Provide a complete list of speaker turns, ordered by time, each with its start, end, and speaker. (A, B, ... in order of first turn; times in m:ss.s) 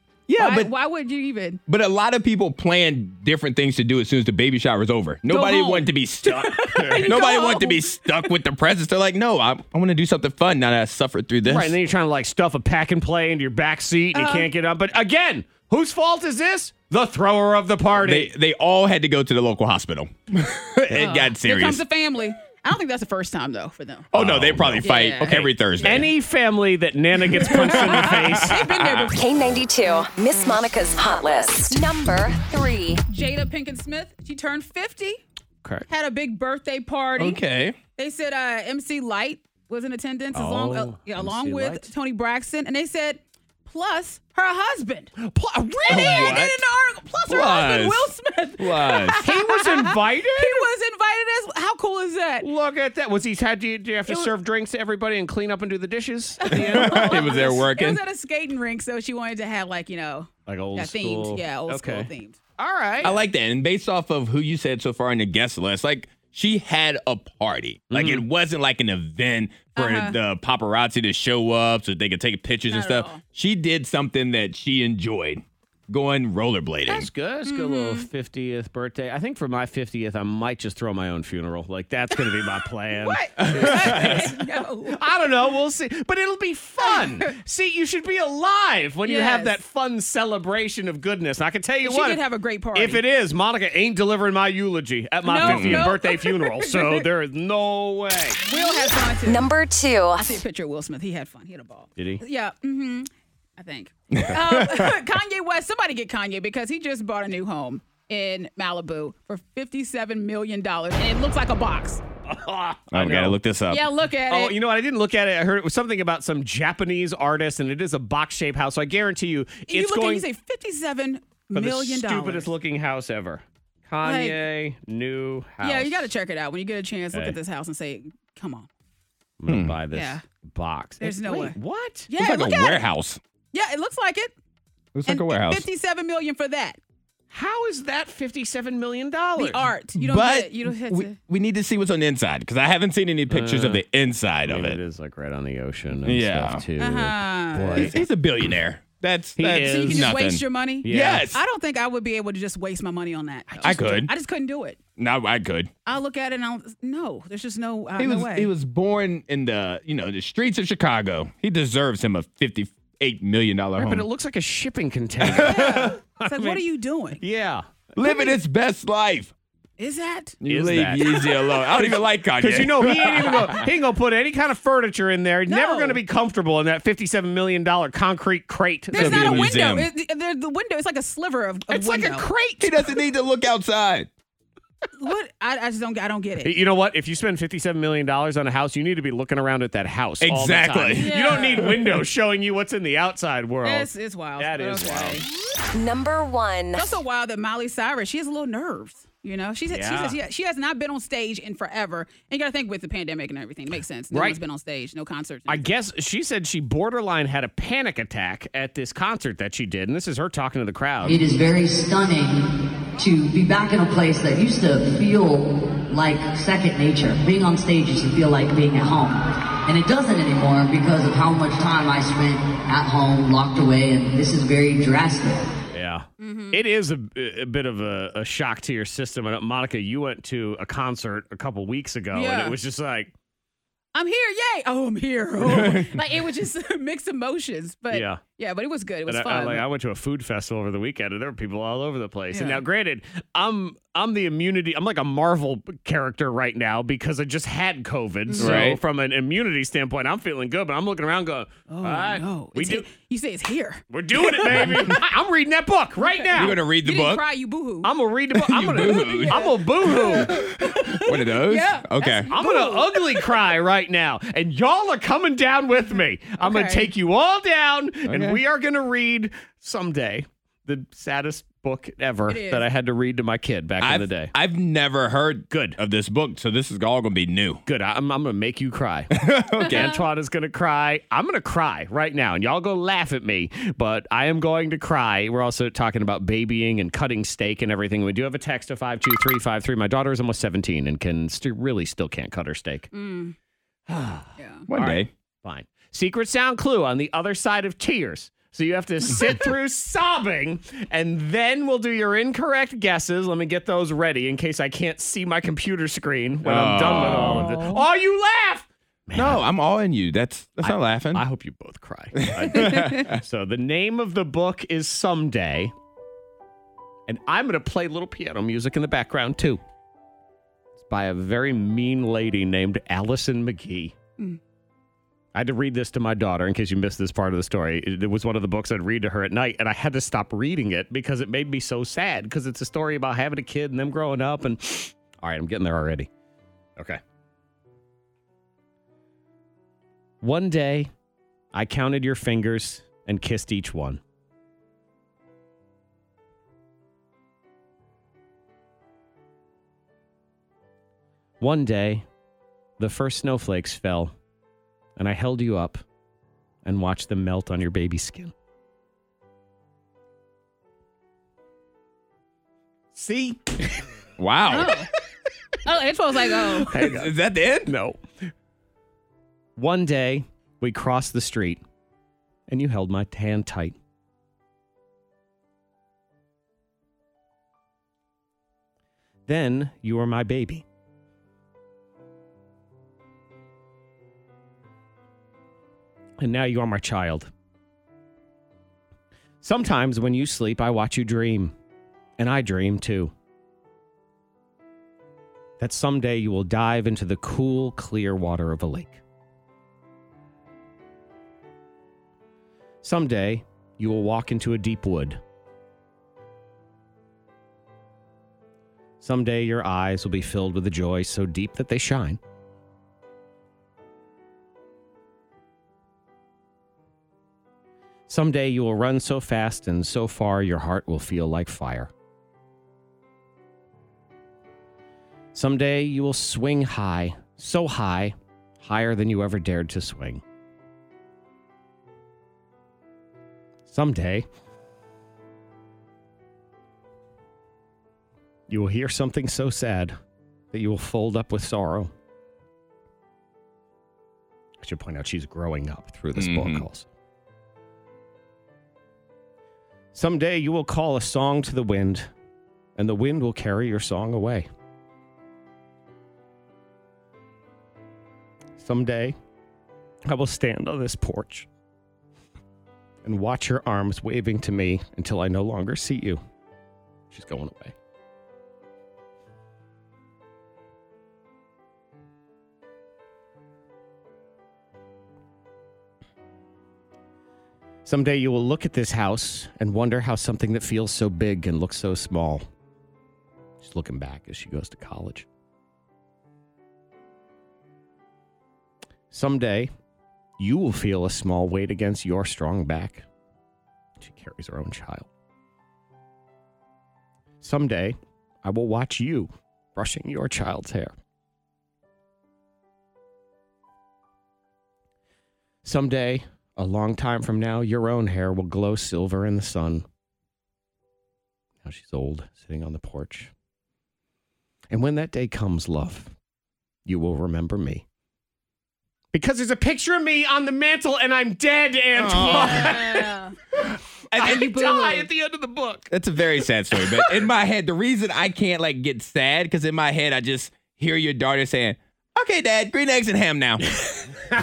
0:00.3-0:00.7 A
0:00.4-0:01.6 B
0:01.7-0:11.8 A
0:05.3-0:08.2 B
0:06.8-0:07.1 C
0:11.4-0:18.3 C
0:14.1-0:14.5 B
0:18.0-0:21.8 A
0:20.9-0:24.1 B
0:24.1-0:26.1 A
0:24.1-0:24.7 C
0:24.7-0:25.5 B
0:25.8-0:28.6 C
0:27.4-0:29.2 B
0:27.4-0:29.0 A
0:29.1-0:33.0 D
0:33.1-0:35.2 B
0:35.9-0:37.4 B
0:37.2-0:37.8 A
0:38.0-0:45.1 B
0:40.3-0:41.9 C
0:45.2-0:46.5 C
0:45.9-0:52.5 B
0:45.9-0:46.6 A
0:47.3-0:48.0 A
0:48.6-0:49.2 A
0:49.2-0:50.7 C
0:52.4-0:57.4 C
0:56.4-1:02.4 B
0:56.5-0:58.0 A
1:00.5-1:03.2 C
1:03.0-1:17.1 A
1:07.9-1:08.2 C
1:09.8-1:10.2 B
1:12.7-1:13.2 B
1:16.9-1:32.2 C
1:17.4-1:18.1 B
1:23.0-1:25.0 B
1:23.4-1:24.3 A
1:26.8-1:27.3 B
1:29.0-1:29.6 B
1:31.8-1:33.0 B
1:32.7-1:38.4 C
1:35.2-1:37.0 B
1:35.4-1:35.9 A
1:38.4-1:39.5 B
1:39.2-1:40.3 D
1:40.2-1:52.0 B
1:42.0-1:42.2 C
1:44.1-1:44.9 A
1:52.3-1:53.4 C
1:52.9-1:53.9 A
1:53.7-1:54.6 B
1:54.3-2:00.2 C
1:59.7-2:02.5 B
2:01.5-2:06.1 C
2:04.0-2:04.4 B
2:05.6-2:08.7 B
2:07.1-2:07.4 C
2:09.4-2:12.1 C
2:09.5-2:09.8 A
2:09.9-2:10.2 B
2:11.0-2:11.6 B
2:12.1-2:12.9 B
2:12.2-2:13.2 A
2:13.5-2:14.3 B
2:14.9-2:15.6 A
2:15.1-2:16.8 B
2:17.3-2:19.7 C
2:19.4-2:21.2 B
2:20.0-2:24.8 A
2:23.3-2:23.8 C
2:24.4-2:28.0 C
2:26.0-2:26.6 A
2:26.8-2:27.9 B
2:27.7-2:31.4 A
2:29.4-2:30.2 C
2:29.6-2:34.8 B
2:30.8-2:31.3 C
2:33.5-2:34.0 C
2:33.6-2:34.1 A
2:35.0-2:35.7 A
2:35.8-2:38.5 B
2:38.0-2:44.0 A
2:43.8-2:46.6 C
2:45.2-2:45.9 A
2:45.4-2:47.2 B
2:47.2-2:47.6 C
2:47.9-2:49.3 A
2:48.0-2:48.3 B
2:49.8-2:50.4 B
2:50.4-2:53.7 A
2:50.4-2:59.5 C
2:55.5-2:56.0 B
2:58.9-3:02.3 B
2:58.9-2:59.9 A
3:01.7-3:02.9 C
3:02.6-3:04.1 A
3:05.0-3:06.6 B
3:06.4-3:15.2 C
3:10.2-3:11.4 A
3:11.0-3:11.7 B
3:13.6-3:15.2 B
3:15.7-3:17.0 D
3:16.7-3:25.7 B
3:19.7-3:20.2 C
3:24.1-3:24.4 C
3:25.5-3:31.2 C
3:31.0-3:45.5 E
3:45.7-3:53.1 C
3:46.2-3:46.6 B
3:52.1-3:52.6 B
3:53.9-3:59.6 B
3:55.4-3:55.9 A
3:57.9-3:58.2 C
3:59.1-4:12.8 C
4:02.3-4:02.6 B
4:08.3-4:08.6 B
4:08.4-4:08.8 A
4:11.7-4:15.0 B
4:13.9-4:16.6 C
4:16.3-4:17.2 A
4:16.8-4:17.9 B
4:17.8-4:20.4 C
4:18.4-4:22.3 A
4:18.6-4:23.3 B
4:22.3-4:34.3 C
4:26.4-4:26.9 B
4:28.0-4:28.4 A
4:32.3-4:32.6 B
4:33.8-4:37.6 A
4:35.5-4:35.8 C
4:37.6-4:39.1 C
4:39.1-4:39.9 A
4:39.6-4:40.0 B
4:39.6-4:52.9 C
4:52.9-4:53.4 B
4:53.9-5:09.4 C
4:54.4-4:54.6 B
4:54.7-4:55.1 A
5:06.4-5:07.5 A
5:07.1-5:07.8 B
5:09.1-5:11.2 A
5:10.6-5:15.7 C
5:12.3-5:13.2 A
5:12.6-5:13.0 B
5:17.1-5:19.6 C
5:20.8-5:23.9 C
5:25.3-5:36.1 C
5:40.2-5:40.9 C
5:41.5-5:44.0 C
5:51.4-5:52.0 C
5:52.8-5:54.1 C
5:55.0-5:55.8 C
5:56.6-5:58.3 C
6:02.9-6:03.6 C
6:04.2-6:04.7 A
6:04.5-6:04.9 B
6:05.6-6:06.8 B
6:06.7-6:07.1 C
6:06.7-6:07.7 A
6:07.6-6:08.0 C
6:09.6-6:11.6 C
6:12.5-6:13.8 C
6:19.3-6:20.6 C
6:26.2-6:27.3 C
6:29.4-6:31.5 C
6:32.2-6:33.1 C
6:35.6-6:39.0 C
6:42.8-6:45.2 C
6:49.0-6:52.2 C
6:58.1-7:01.9 C
7:05.3-7:10.2 C
7:13.7-7:14.2 C
7:18.5-7:20.0 C
7:20.5-7:21.9 C
7:24.6-7:26.9 C
7:26.2-7:26.6 A
7:29.9-7:32.1 C
7:32.8-7:34.5 C
7:38.6-7:39.2 C
7:40.0-7:41.5 C
7:43.0-7:46.2 C
7:47.1-7:47.7 C
7:57.8-8:02.4 C
8:03.6-8:05.2 C
8:09.1-8:09.7 C
8:10.4-8:13.0 C
8:14.0-8:15.1 C
8:17.4-8:20.9 C
8:25.6-8:29.8 C
8:31.6-8:33.3 C
8:34.7-8:36.1 C
8:36.8-8:37.8 C
8:39.1-8:43.1 C
8:42.0-8:42.8 A
8:42.2-8:43.3 B
8:44.1-8:44.8 A
8:44.1-8:45.9 C
8:44.3-8:45.0 B
8:45.9-8:53.8 A